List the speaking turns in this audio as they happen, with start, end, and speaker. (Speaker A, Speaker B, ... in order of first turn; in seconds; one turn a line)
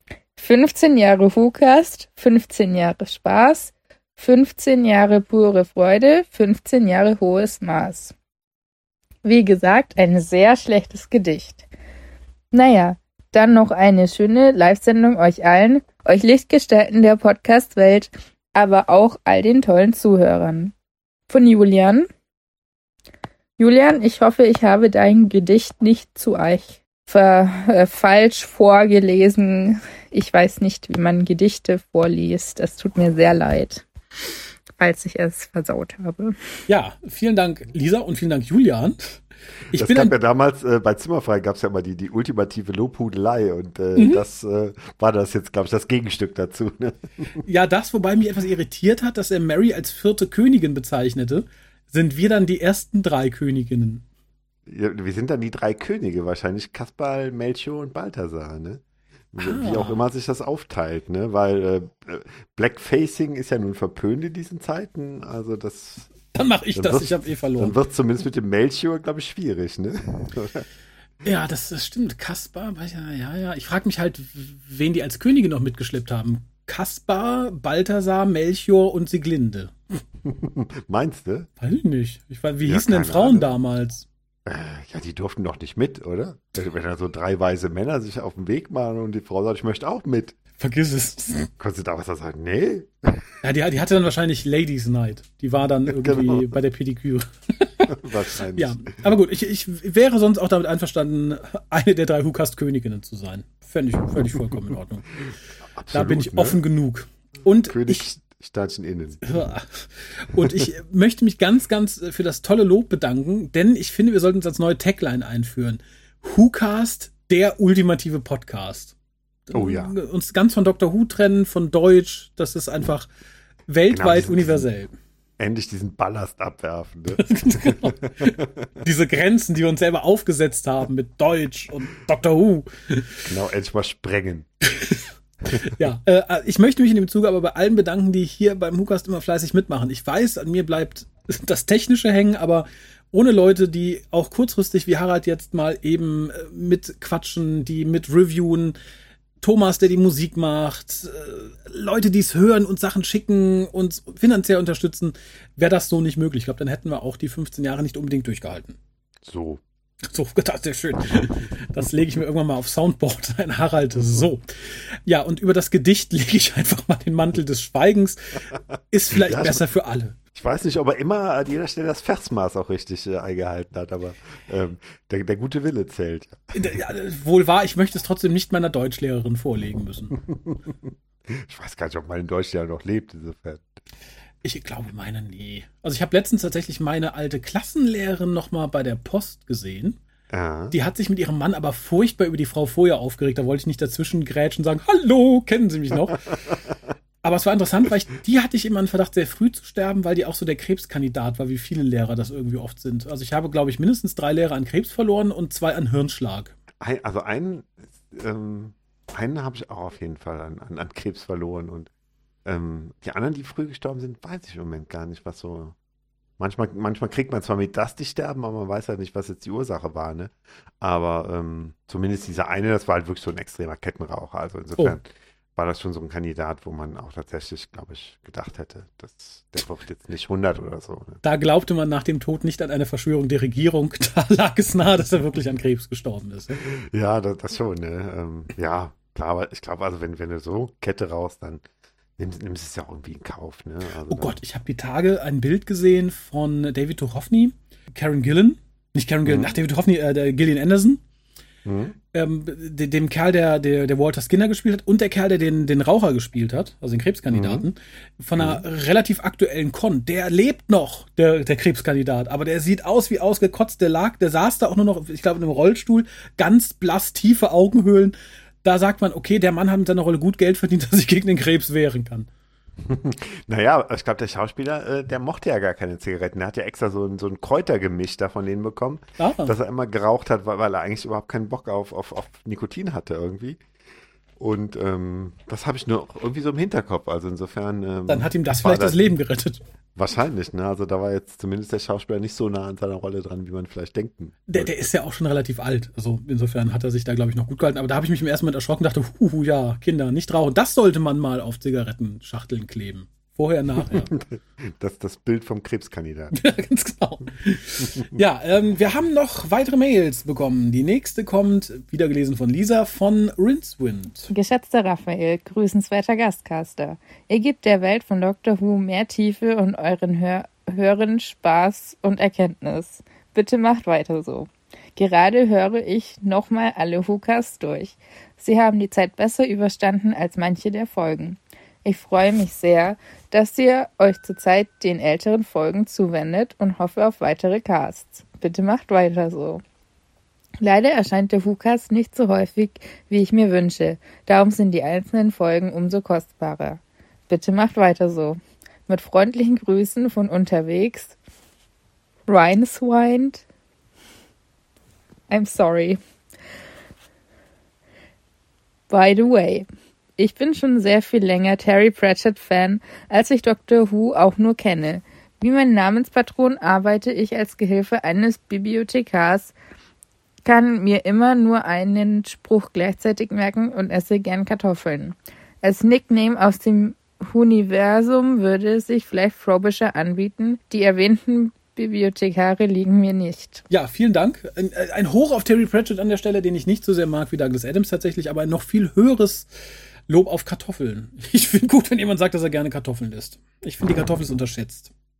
Speaker A: 0.4-8.1
Speaker A: 9.2-11.6
Speaker A: 12.5-20.7
Speaker A: 21.3-22.1
Speaker A: 23.6-33.9
Speaker A: 34.8-36.4
Speaker B: 36.7-39.2
Speaker B: 39.7-40.1
Speaker C: 39.7-47.3
Speaker B: 44.0-44.2
Speaker B: 47.4-54.0
Speaker C: 54.7-58.8
Speaker C: 59.3-66.2
Speaker B: 59.4-60.0
Speaker B: 66.3-67.8
Speaker C: 66.8-70.6
Speaker B: 71.2-79.8
Speaker C: 80.3-81.5
Speaker B: 81.6-84.0
Speaker C: 82.6-83.5
Speaker C: 84.5-90.4
Speaker B: 90.6-91.5
Speaker C: 91.6-93.2
Speaker B: 93.4-98.0
Speaker C: 95.9-96.5
Speaker C: 97.9-99.1
Speaker B: 98.5-105.1
Speaker C: 105.8-106.6
Speaker B: 105.9-108.0
Speaker C: 107.7-109.2
Speaker B: 109.2-118.9
Speaker B: 119.5-123.1
Speaker C: 119.5-119.9
Speaker B: 123.7-124.9
Speaker C: 123.9-124.7
Speaker C: 125.4-128.5
Speaker B: 127.2-133.1
Speaker C: 133.2-134.5
Speaker B: 135.6-148.8
Speaker B: 149.4-158.8
Speaker C: 159.2-159.6
Speaker B: 160.1-164.4
Speaker C: 163.9-164.3
Speaker B: 165.1-168.2
Speaker B: 168.9-170.2
Speaker C: 169.1-169.7
Speaker C: 170.3-176.5
Speaker B: 176.5-180.2
Speaker C: 180.2-180.7
Speaker C: 181.3-183.7
Speaker B: 184.4-190.0
Speaker C: 190.3-190.8
Speaker B: 190.7-196.3
Speaker B: 197.2-206.5
Speaker C: 206.8-211.9
Speaker C: 212.4-215.8
Speaker C: 216.4-231.2
Speaker B: 231.2-236.6
Speaker C: 236.6-241.6
Speaker C: 242.2-244.4
Speaker B: 244.1-251.0
Speaker C: 249.2-249.5
Speaker C: 251.7-252.0
Speaker B: 252.1-272.3
Speaker C: 257.3-257.7
Speaker C: 258.4-258.6
Speaker C: 272.9-283.6
Speaker B: 279.2-279.5
Speaker C: 284.4-289.1
Speaker B: 288.1-289.6
Speaker C: 290.0-294.7
Speaker B: 294.5-304.1
Speaker C: 303.9-306.4
Speaker B: 306.3-314.3
Speaker A: 314.3-339.6
Speaker A: 340.6-351.1
Speaker A: 352.3-353.4
Speaker A: 355.3-356.0
Speaker A: 358.9-359.7
Speaker A: 360.2-369.5
Speaker A: 370.4-383.6
Speaker B: 383.7-389.5
Speaker B: 390.1-394.9